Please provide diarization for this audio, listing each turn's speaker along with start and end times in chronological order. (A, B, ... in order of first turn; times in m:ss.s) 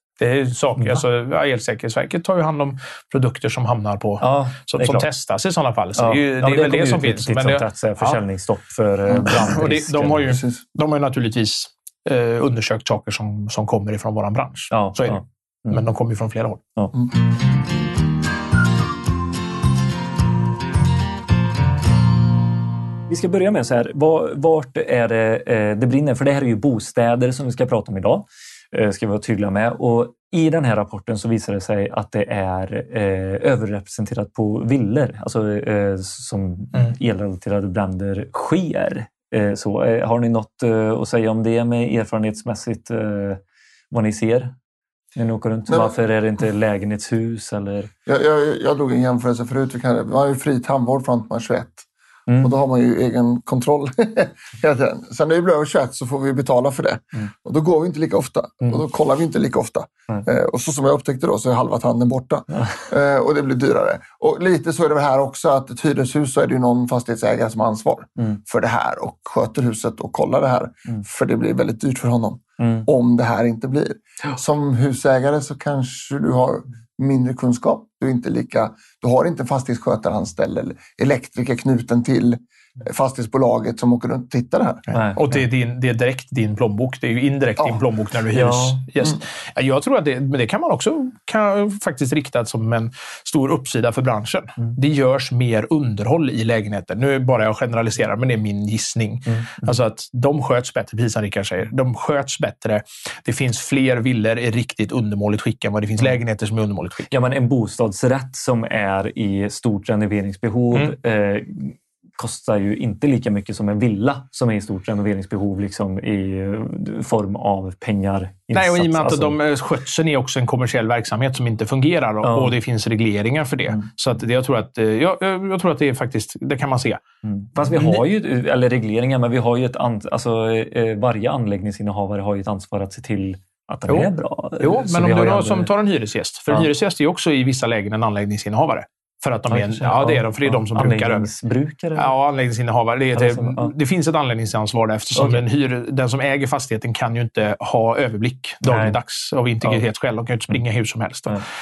0:00.2-0:08.2 A
0:04.2-0:05.1 B
0:06.0-0:10.4 B
0:09.0-0:09.6 C
0:09.3-0:16.6 A
0:10.3-0:10.6 C
0:14.7-0:15.8 B
0:23.1-0:44.5 B
0:45.1-0:47.9 B
0:48.0-0:51.8 C
0:52.3-0:52.5 B
0:52.4-1:24.8 C
1:02.6-1:02.8 B
1:12.6-1:12.9 B
1:24.9-1:47.1 A
1:24.9-1:25.4 B
1:28.3-1:28.8 B
1:47.1-1:59.4 B
1:58.5-2:07.0 A
2:02.2-2:02.6 B
2:07.2-2:15.7 B
2:07.7-2:08.0 A
2:13.9-2:21.3 A
2:19.5-2:22.1 B
2:21.9-2:31.4 A
2:23.1-2:23.7 B
2:25.1-2:25.4 B
2:28.6-2:29.0 B